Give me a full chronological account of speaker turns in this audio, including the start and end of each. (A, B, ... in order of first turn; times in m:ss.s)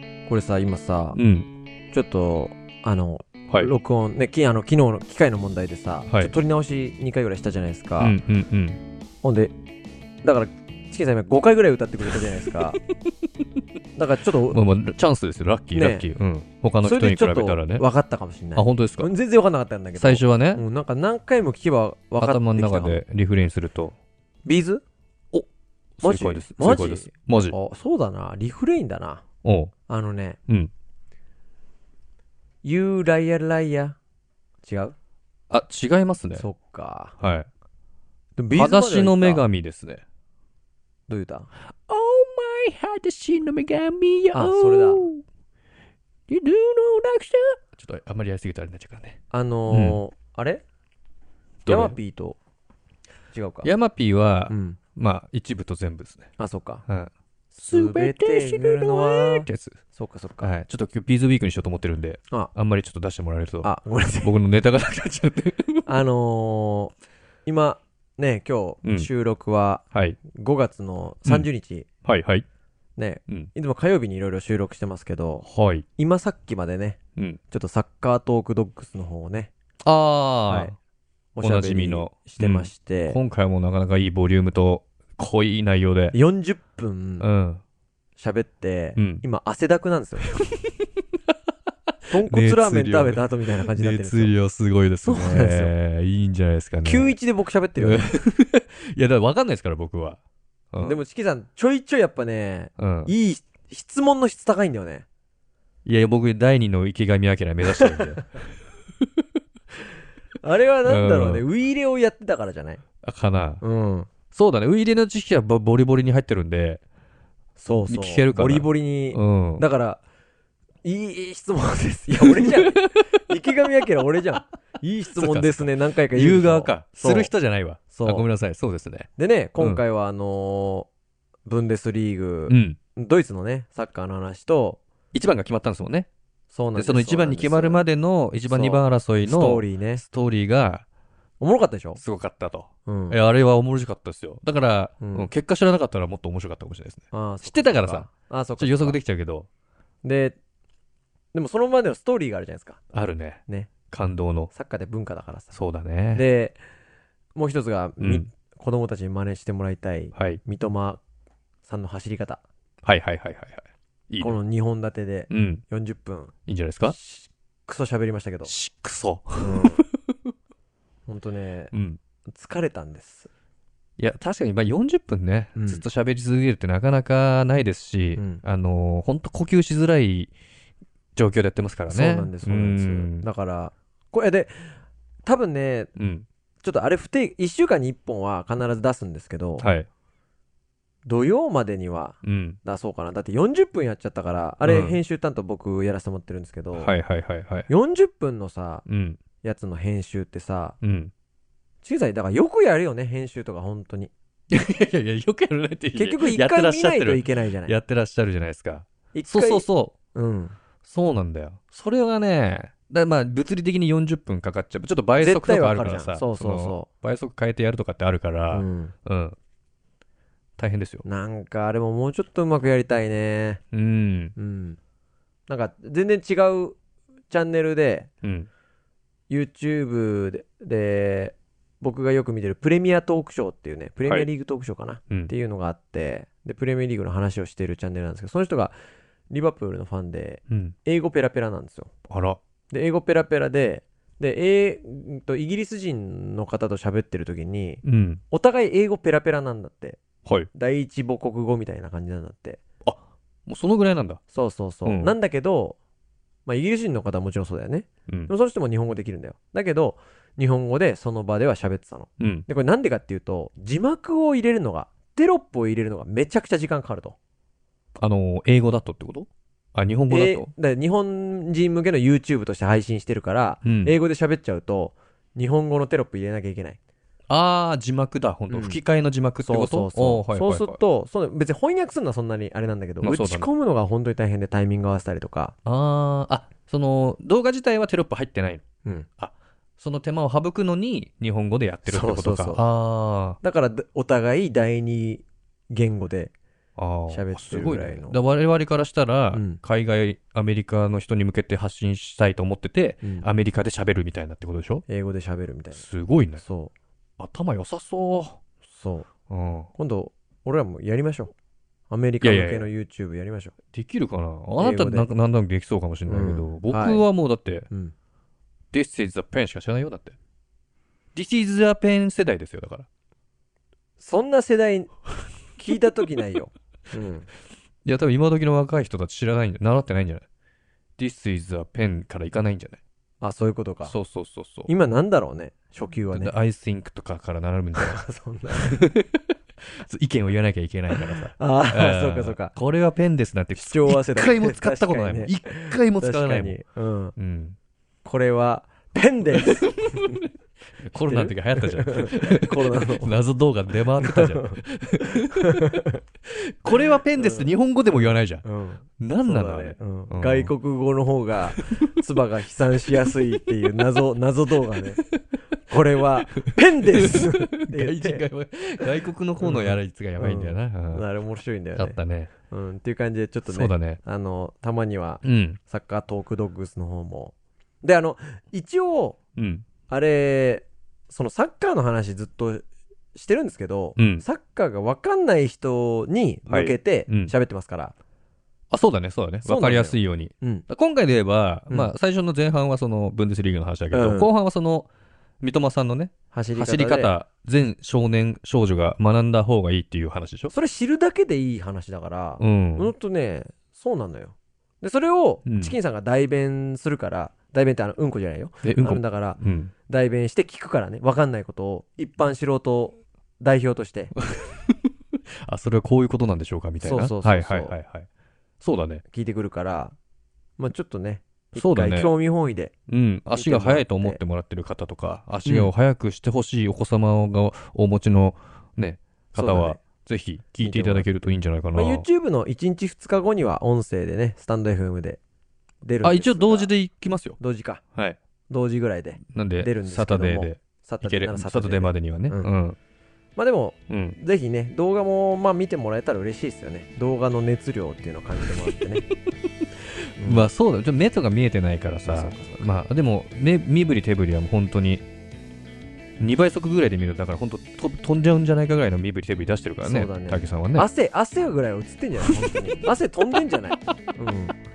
0:00.3-0:01.2 A
0:01.1-0:01.5 B
0:01.9-0:08.2 A
0:08.0-0:08.8 B
0:09.2-0:09.5 A
0:10.2-0:12.8 A
0:14.0-0:14.6 A
0:14.5-0:17.8 B
0:15.7-0:16.0 A
0:16.8-0:23.0 A
0:18.5-0:19.1 B
0:20.0-0:20.6 B
0:22.2-0:23.9 B
0:24.4-0:24.8 A
0:26.0-0:27.6 B
0:26.0-0:29.2 A
0:29.4-0:29.7 B
0:29.9-0:30.4 A
0:32.6-0:34.0 A
0:34.6-0:34.9 A
0:35.5-0:36.4 B
0:36.4-0:37.2 A
0:37.2-0:37.5 B
0:38.4-0:39.5 A
0:38.5-0:40.0 B
0:41.1-0:41.5 A
0:41.9-0:45.2 B
0:44.3-0:45.0 A
0:46.3-0:49.2 B
0:49.3-0:50.6 A
0:49.7-0:50.0 B
0:51.6-0:52.0 B
0:51.7-0:52.4 A
0:53.3-0:53.7 A
0:53.6-0:56.3 B
0:54.5-0:54.8 A
0:56.4-0:56.8 A
0:56.9-0:59.8 B
0:57.5-1:00.5 A
1:00.4-1:03.7 B
1:03.6-1:04.3 A
1:04.2-1:05.9 B
1:05.9-1:06.9 A
1:07.4-1:11.9 A
1:08.8-1:09.1 B
1:09.9-1:10.2 B
1:12.0-1:12.4 B
1:13.0-1:15.5 A
1:15.4-1:15.8 B
1:16.0-1:17.0 A
1:17.5-1:19.5 A
1:19.8-1:20.7 B
1:20.5-1:20.7 A
1:21.4-1:23.2 A
1:21.4-1:26.2 B
1:26.1-1:27.2 A
1:27.2-1:27.6 B
1:28.2-1:30.3 A
1:29.0-1:29.2 B
1:32.1-1:34.3 A
1:32.1-1:37.1 B
1:35.0-1:35.7 A
1:36.8-1:38.1 A
1:37.8-1:40.2 B
1:40.7-1:41.0 B
1:40.8-1:45.0 A
1:42.8-1:43.1 B
1:45.8-1:48.5 B
1:47.8-1:48.2 A
1:50.4-1:52.8 A
1:50.8-1:51.4 B
1:53.0-1:53.6 B
1:53.6-1:54.1 A
1:54.3-1:56.8 B
1:57.6-2:00.0 A
1:57.9-1:59.6 B
2:00.8-2:07.3 A
2:02.2-2:03.2 B
2:05.2-2:09.1 B
2:07.9-2:08.3 A
2:09.2-2:10.9 A
2:11.4-2:14.8 A
2:12.5-2:12.8 B
2:15.1-2:16.1 B
2:16.5-2:17.8 A
2:16.7-2:20.8 B
2:18.5-2:20.0 A
2:21.4-2:22.0 A
2:22.0-2:29.5 B
2:22.8-2:23.2 A
2:25.0-2:25.3 A
2:27.1-2:29.0 A
2:30.0-2:30.4 A
2:31.3-2:32.8 A
2:32.9-2:34.5 B
2:33.5-2:33.7 A
2:34.5-2:35.5 A
2:35.5-2:36.2 B
2:36.1-2:36.6 A
2:37.4-2:41.0 A
2:38.0-2:38.3 B
2:40.1-2:40.4 B
2:41.6-2:42.4 A
2:42.8-2:44.4 B
2:44.2-2:48.5 A
2:45.3-2:45.6 B
2:46.4-2:47.0 B
2:48.4-2:49.8 B
2:49.4-2:49.8 A
2:51.1-2:51.7 A
2:51.7-2:52.0 B
2:52.3-2:53.3 A
2:54.0-3:00.3 B
2:55.6-2:55.8 A
2:58.2-2:58.4 A
3:01.2-3:03.2 B
3:01.9-3:05.9 A
3:06.0-3:06.3 B
3:06.6-3:09.7 A
3:09.6-3:09.9 B
3:11.0-3:16.9 A
3:12.2-3:12.6 B
3:14.6-3:15.0 B
3:16.7-3:17.7 B
3:17.7-3:18.8 A
3:18.9-3:19.2 B
3:19.4-3:20.8 A
3:20.8-3:21.1 B
3:21.8-3:24.1 A
3:24.5-3:29.9 B
3:25.9-3:27.8 A
3:29.1-3:30.6 A
3:30.8-3:39.4 B
3:35.2-3:36.9 A
3:38.5-3:38.9 A
3:40.6-3:41.0 B
3:41.0-3:43.6 A
3:43.7-3:44.3 B
3:44.4-3:44.8 A
3:45.5-3:46.8 A
3:47.3-3:48.1 A
3:48.2-3:48.5 B
3:49.3-3:58.7 A
3:59.3-4:01.9 A
4:00.5-4:00.7 B
4:02.1-4:02.4 B
4:02.7-4:10.0 A
4:07.8-4:08.2 B
4:10.5-4:12.6 A
4:12.8-4:14.2 B
4:14.3-4:15.8 A
4:14.8-4:15.1 B
4:16.4-4:27.2 A
4:22.2-4:22.4 B
4:28.0-4:30.5 B
4:30.1-4:36.8 A
4:33.6-4:33.9 B
4:37.3-4:40.8 B
4:38.5-4:38.8 A
4:39.4-4:45.6 A
4:43.0-4:43.5 B
4:45.6-4:48.6 B
4:49.2-4:53.4 B
4:51.8-4:52.6 A
4:53.4-4:56.3 A
4:56.8-5:04.8 B
4:57.1-4:58.2 A
4:59.3-4:59.6 A
5:04.9-5:05.8 A
5:05.7-5:06.4 B
5:06.4-5:06.7 A
5:07.2-5:08.4 B
5:08.7-5:09.1 A
5:09.3-5:09.7 B
5:09.8-5:11.3 A
5:11.9-5:13.5 A
5:12.2-5:12.7 B
5:13.7-5:17.7 B
5:14.6-5:15.1 A
5:16.1-5:17.0 A
5:18.7-5:20.2 B
5:21.1-5:22.9 B
5:24.0-5:24.9 A
5:25.6-5:27.3 A
5:27.8-5:30.2 B
5:31.0-5:32.8 B
5:33.2-5:33.9 A
5:33.8-5:34.7 B
5:34.7-5:36.3 A
5:36.1-5:38.0 B
5:37.8-5:38.8 A
5:38.6-5:39.2 B
5:39.7-5:46.6 B
5:40.9-5:42.5 A
5:43.5-5:47.2 A
5:47.2-5:47.6 B
5:48.0-5:50.2 A
5:49.4-5:50.2 B
5:50.8-5:55.7 B
5:51.0-5:53.2 A
5:54.0-5:54.6 A
5:55.1-5:56.0 A
5:56.3-5:58.4 B
5:57.1-6:05.0 A
5:59.0-6:00.5 B
6:01.5-6:01.8 B
6:05.7-6:08.2 A
6:06.4-6:11.0 B
6:09.4-6:12.0 A
6:11.8-6:12.3 B
6:12.5-6:19.2 A
6:13.4-6:14.0 B
6:15.2-6:15.6 B
6:19.4-6:19.6 B
6:19.9-6:27.9 A
6:24.0-6:24.2 B
6:26.5-6:27.3 B
6:28.7-6:34.9 B
6:29.4-6:30.7 A
6:33.9-6:34.3 A
6:35.4-6:40.5 B
6:36.3-6:37.1 A
6:40.5-6:54.1 A
6:42.4-6:42.9 B
6:45.4-6:45.8 B
6:48.6-6:49.7 B
6:54.3-6:54.9 B
6:55.4-6:58.1 B
6:56.8-6:57.7 A
6:58.6-6:59.0 B
6:59.1-6:59.9 A
7:00.6-7:02.7 A
7:01.6-7:02.1 B
7:02.9-7:12.0 B
7:03.3-7:04.2 A
7:05.4-7:05.7 A
7:09.4-7:09.8 A
7:10.6-7:15.2 A
7:15.8-7:16.7 A
7:16.0-7:17.4 B
7:17.4-7:17.8 A
7:18.5-7:22.5 A
7:19.3-7:22.8 B
7:23.4-7:29.1 A
7:23.9-7:24.2 B
7:30.0-7:35.0 B
7:30.2-7:30.5 A
7:32.0-7:32.7 A
7:36.2-7:40.9 B
7:39.8-7:44.5 A
7:42.2-7:42.6 B